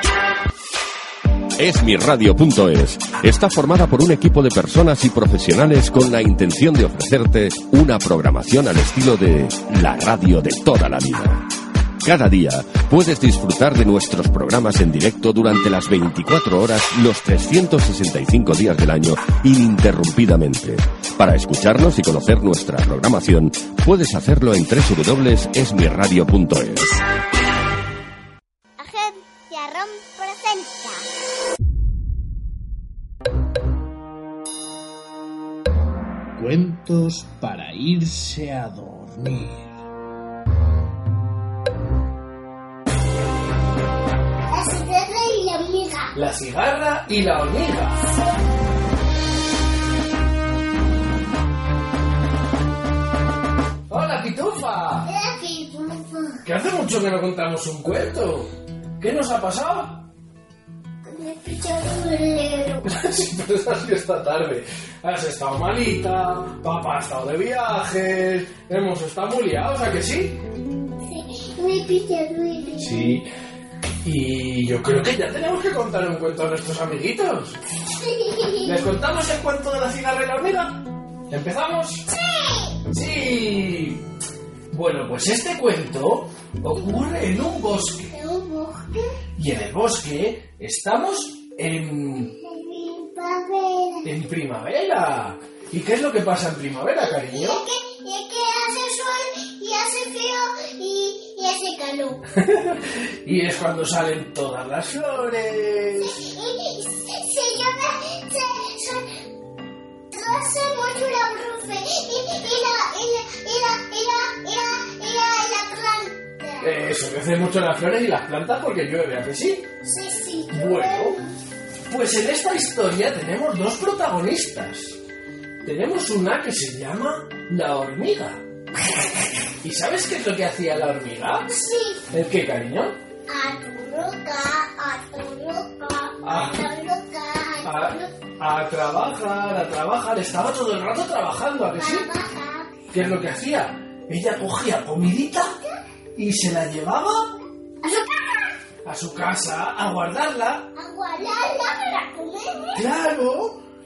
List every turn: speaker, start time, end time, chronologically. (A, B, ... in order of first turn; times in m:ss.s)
0:01.6-0:11.4 A
0:12.0-0:27.0 A
0:28.8-0:31.1 B
0:36.4-0:39.7 C
0:44.5-0:46.2 B
0:46.1-0:48.0 D
0:53.9-0:55.1 D
0:55.0-0:56.4 B
0:56.4-1:00.0 D
1:01.0-1:02.9 B
1:02.8-1:10.4 D
1:11.0-1:13.0 B
1:12.8-1:13.3 D
1:14.0-1:17.6 D
1:17.8-1:18.8 B
1:18.6-1:22.1 D
1:22.1-1:22.8 B
1:22.9-1:24.0 D
1:24.7-1:28.1 D
1:28.1-1:29.1 B
1:29.4-1:32.3 D
1:32.4-1:34.1 B
1:34.0-1:37.6 D
1:37.0-1:42.2 B
1:42.4-1:46.1 D
1:45.9-1:49.1 B
1:50.1-1:56.8 B
1:56.6-1:59.7 D
1:59.8-2:01.3 B
2:00.5-2:01.2 D
2:01.9-2:05.0 D
2:05.6-2:08.4 D
2:09.6-2:11.5 D
2:11.5-2:12.0 B
2:12.1-2:12.9 D
2:13.3-2:18.1 B
2:16.2-2:16.6 D
2:17.6-2:22.1 D
2:21.8-2:22.8 B
2:22.9-2:25.5 D
2:26.2-2:27.3 D
2:27.8-2:28.6 B
2:28.8-2:30.7 D
2:30.7-2:32.9 B
2:32.7-2:33.6 D